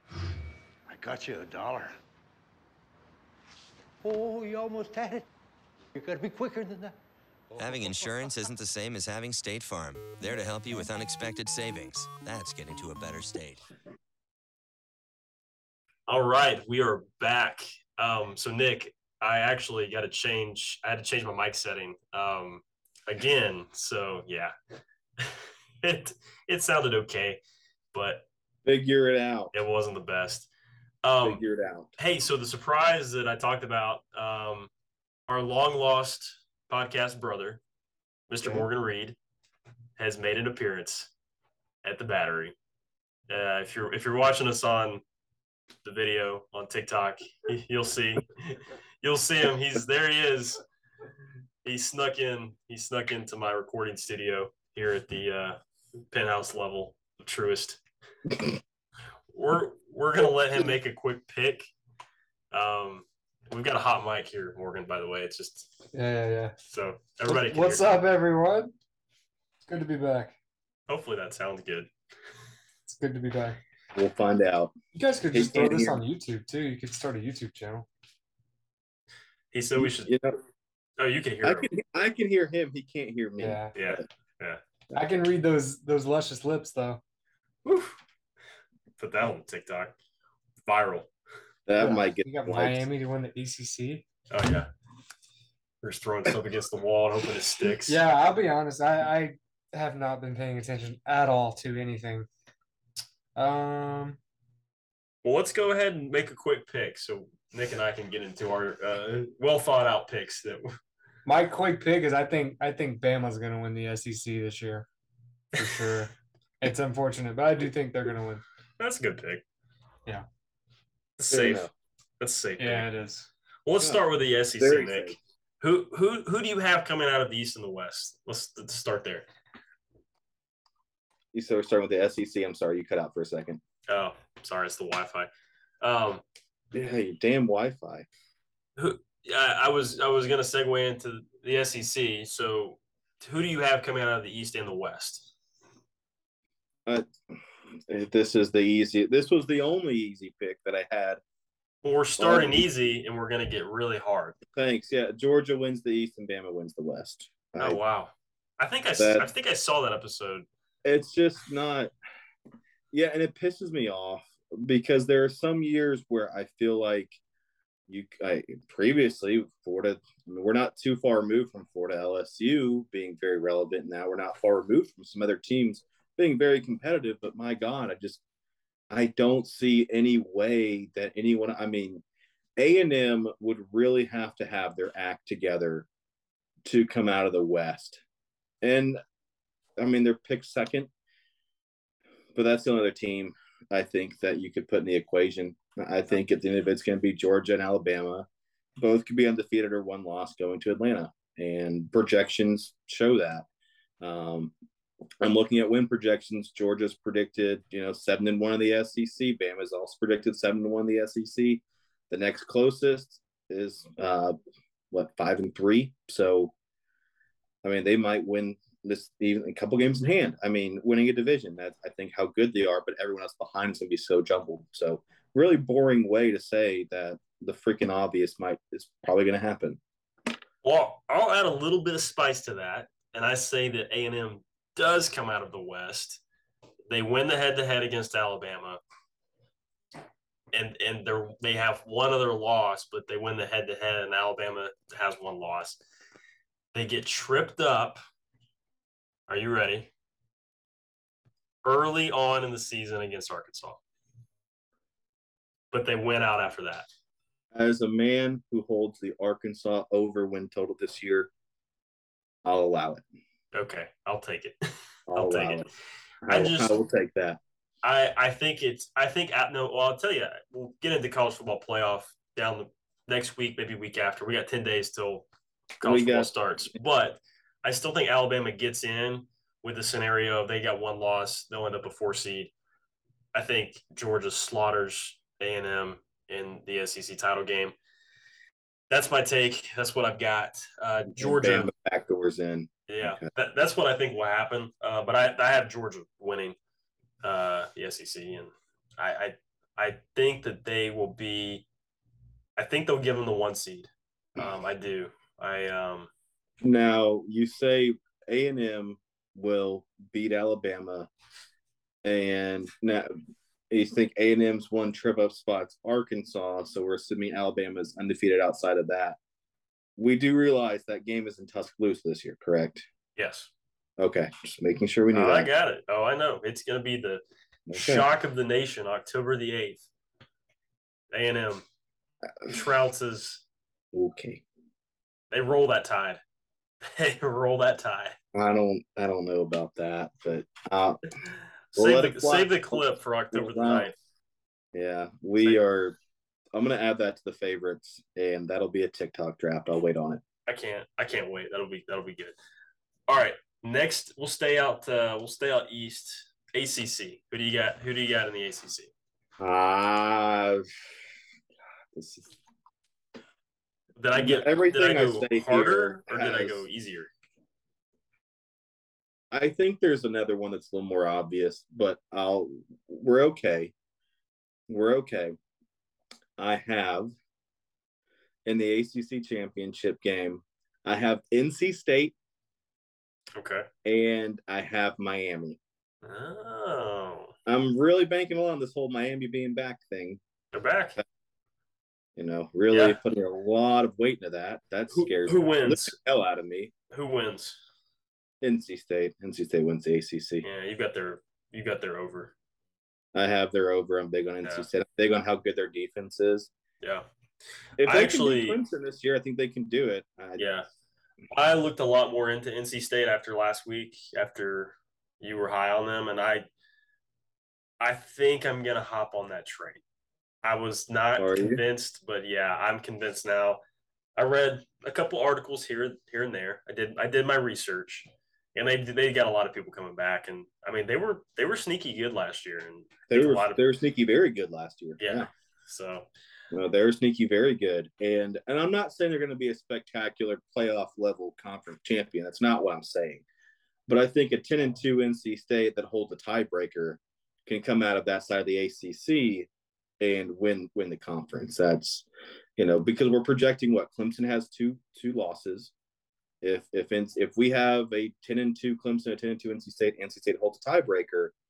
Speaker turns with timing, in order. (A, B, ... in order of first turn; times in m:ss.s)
0:00.9-0:02.0 A
0:04.0-0:05.3 A
0:05.9-0:06.9 A
0:07.5-0:08.4 A
0:07.6-0:13.6 B
0:16.1-0:24.5 C
0:25.2-0:27.4 C
0:27.9-0:28.2 C
0:28.6-0:29.5 D
0:29.5-0:30.5 C
0:31.0-0:31.4 C
0:31.2-0:31.9 D
0:32.0-0:34.7 C
0:35.3-0:37.6 C
0:38.3-0:39.2 C
0:40.0-0:41.1 C
0:41.8-0:42.5 C
0:43.3-0:45.0 C
0:45.8-0:50.6 C
0:51.6-0:55.6 C
0:56.1-0:57.8 C
0:59.3-1:01.7 C
1:02.5-1:05.8 C
1:05.9-1:06.6 E
1:06.7-1:07.9 C
1:07.2-1:08.7 E
1:09.6-1:10.4 E
1:10.9-1:11.9 C
1:12.9-1:13.6 E
1:13.9-1:14.7 D
1:15.0-1:17.9 E
1:15.3-1:16.0 D
1:19.5-1:20.2 C
1:19.8-1:20.4 D
1:21.0-1:21.7 C
1:21.4-1:24.0 D
1:23.4-1:23.7 E
1:23.7-1:24.6 C
1:24.9-1:27.0 E
1:27.6-1:28.0 C
1:29.0-1:30.0 C
1:30.6-1:31.1 C
1:31.7-1:32.9 D
1:31.8-1:34.0 E
1:34.3-1:34.7 C
1:35.8-1:38.0 C
1:37.9-1:42.3 E
1:43.4-1:44.2 E
1:45.2-1:50.7 C
1:51.2-1:54.9 E
1:55.5-1:58.4 E
1:55.6-1:55.9 C
1:58.8-1:59.4 C
2:01.2-2:01.7 C
2:01.3-2:01.7 D
2:02.2-2:02.9 C
2:02.6-2:03.3 E
2:03.6-2:09.3 C
2:04.6-2:05.2 D
2:11.3-2:13.6 D
2:13.9-2:15.3 C
2:15.8-2:16.2 C
2:16.7-2:18.0 D
2:18.8-2:25.3 C
2:27.9-2:31.2 D
2:31.8-2:34.4 C
2:32.2-2:32.6 D
2:34.5-2:37.8 D
2:37.6-2:40.5 C
2:39.0-2:39.3 D
2:40.8-2:41.9 D
2:42.9-2:47.2 D
2:47.9-2:58.2 D
2:58.9-3:02.0 D
3:02.6-3:05.9 D
3:06.6-3:08.0 D
3:08.6-3:09.0 D
3:09.8-3:10.9 D
3:12.3-3:18.3 D
3:18.8-3:23.4 D
3:24.0-3:24.5 D
3:25.2-3:34.4 D
3:34.9-3:36.5 D
3:37.6-3:49.8 D
3:50.6-3:56.2 C
3:56.9-3:58.8 C
4:00.5-4:05.8 C
4:06.7-4:08.0 C
4:09.3-4:09.9 C
4:11.6-4:13.8 C
4:15.7-4:16.9 C
4:17.5-4:21.3 D
4:22.4-4:23.0 D
4:23.5-4:25.7 C
4:25.1-4:25.7 D
4:26.2-4:27.4 D
4:26.3-4:26.8 C
4:27.8-4:35.3 C
4:35.8-4:42.5 C
4:35.8-4:36.3 D
4:43.3-4:47.8 C
4:48.9-4:51.7 C
4:51.2-4:53.2 D
4:52.9-4:56.6 C
4:57.2-5:01.6 C
5:02.6-5:06.1 C
5:06.6-5:11.1 D
5:12.0-5:13.2 D
5:13.7-5:19.2 D
5:20.0-5:22.8 D
5:23.2-5:23.5 C
5:24.0-5:25.5 D
5:25.1-5:27.2 C
5:27.7-5:28.0 D
5:27.7-5:29.8 C
5:31.1-5:31.6 C
5:32.5-5:33.4 C
5:33.9-5:34.4 D
5:35.3-5:36.2 C
5:36.8-5:38.2 C
5:38.3-5:41.0 D
5:41.7-5:43.9 C
5:41.8-5:43.9 D
5:44.7-5:45.9 D
5:46.5-5:50.2 D
5:50.4-5:52.4 C
5:53.1-5:58.9 C
5:59.4-6:00.7 D
6:01.9-6:02.4 D
6:04.0-6:07.1 C
6:04.1-6:06.6 D
6:09.3-6:13.7 D
6:14.7-6:15.4 D
6:16.4-6:17.1 D
6:18.4-6:22.1 D
6:23.3-6:23.7 C
6:23.8-6:25.6 D
6:26.0-6:27.3 C
6:27.4-6:30.2 D
6:30.5-6:31.0 C
6:32.2-6:36.7 D
6:32.7-6:33.0 C
6:34.9-6:35.9 C
6:36.9-6:37.6 C
6:38.4-6:40.5 D
6:40.4-6:42.3 C
6:43.1-6:46.5 D
6:46.8-6:47.1 C
6:47.8-6:50.5 D
6:47.8-6:48.6 C
6:50.4-6:50.7 C
6:51.3-6:56.5 C
6:57.8-6:59.8 C
7:00.4-7:03.6 C
7:01.2-7:01.6 D
7:04.2-7:13.6 C
7:13.1-7:15.3 D
7:15.0-7:16.1 C
7:16.5-7:23.2 D
7:23.9-7:29.5 D
7:30.0-7:32.0 D
7:32.6-7:35.7 D
7:36.4-7:41.3 D